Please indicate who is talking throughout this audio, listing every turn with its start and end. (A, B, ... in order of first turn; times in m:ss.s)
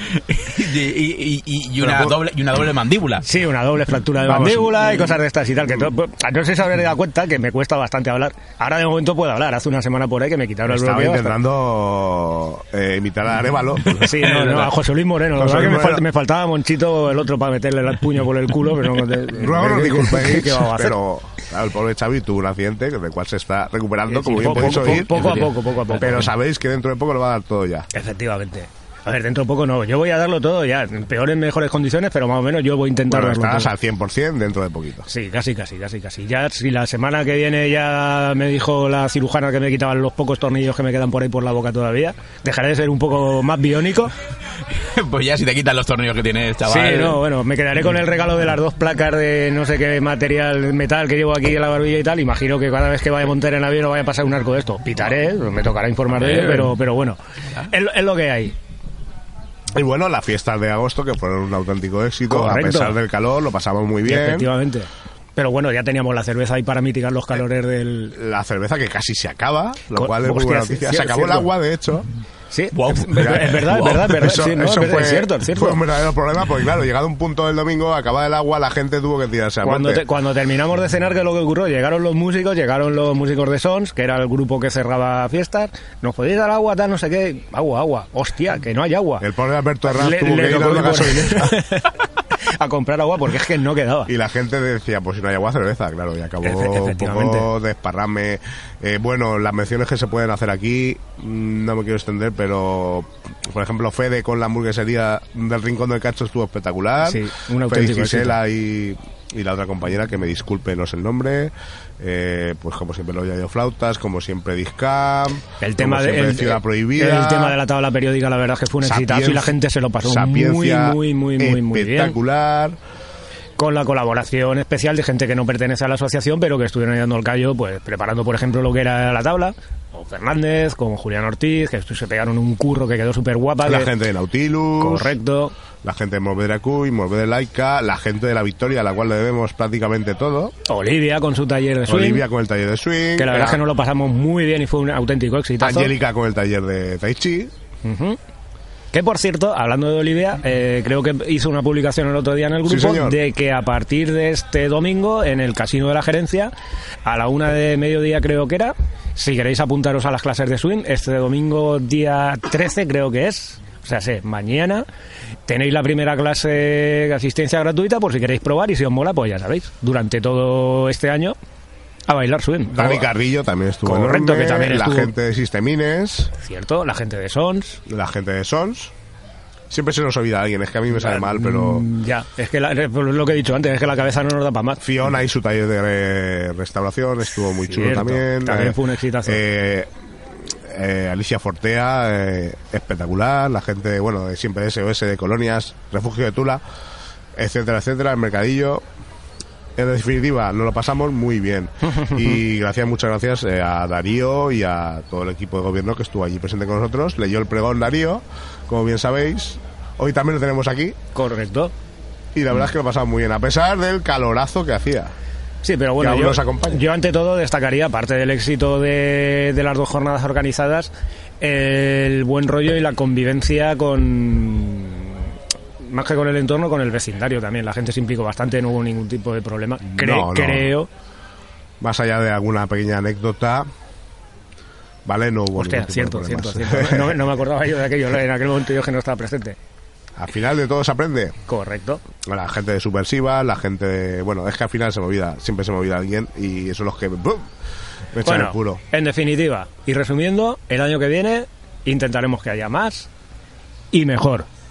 0:00.1-0:03.2 A
0:01.8-0:02.2 B
0:03.2-0:11.4 C
0:04.2-0:05.1 B
0:10.7-0:14.3 B
0:14.0-0:21.0 C
0:15.4-0:16.0 B
0:19.3-0:25.4 B
0:24.1-0:26.3 C
0:24.8-0:25.5 A
0:26.0-0:27.9 B
0:27.9-0:33.7 C
0:33.1-0:35.1 B
0:35.1-0:44.1 C
0:44.7-0:47.2 A
0:46.6-0:57.2 C
0:56.2-0:56.7 A
0:57.7-0:58.6 C
0:59.7-1:04.5 B
1:02.3-1:02.9 C
1:04.0-1:08.2 C
1:08.1-1:12.1 B
1:09.9-1:11.5 C
1:12.5-1:15.8 C
1:12.7-1:14.0 A
1:13.2-1:20.0 B
1:19.6-1:29.2 C
1:29.2-1:31.6 B
1:29.9-1:31.9 C
1:32.6-1:34.1 C
1:34.1-1:57.6 B
1:36.4-1:37.5 C
1:47.0-1:48.4 C
1:55.6-2:02.2 C
1:58.8-2:02.8 B
2:03.6-2:13.9 C
2:13.6-2:15.2 B
2:14.8-2:15.5 C
2:15.8-2:20.5 B
2:20.6-2:22.2 C
2:21.9-2:23.6 B
2:23.2-2:25.9 C
2:25.6-2:27.5 B
2:27.8-2:28.2 C
2:28.9-2:36.5 C
2:32.6-2:33.2 B
2:37.0-2:44.8 C
2:45.4-2:51.4 C
2:52.1-2:53.1 C
2:52.7-2:56.3 B
2:53.8-2:55.1 C
2:56.4-2:57.8 C
2:57.9-2:58.9 B
2:59.7-3:01.9 B
3:00.9-3:04.8 C
3:04.8-3:16.6 B
3:07.6-3:09.4 C
3:17.4-3:18.8 B
3:19.8-3:31.0 B
3:31.1-3:31.7 C
3:32.3-3:35.1 B
3:35.6-3:50.9 C
3:36.0-3:36.8 B
3:49.8-3:50.7 B
3:51.8-3:53.7 B
3:55.0-3:57.2 B
3:55.6-3:59.6 C
4:00.2-4:01.4 B
4:01.5-4:02.0 C
4:02.2-4:07.5 B
4:08.1-4:08.8 B
4:08.2-4:13.1 C
4:13.9-4:14.5 C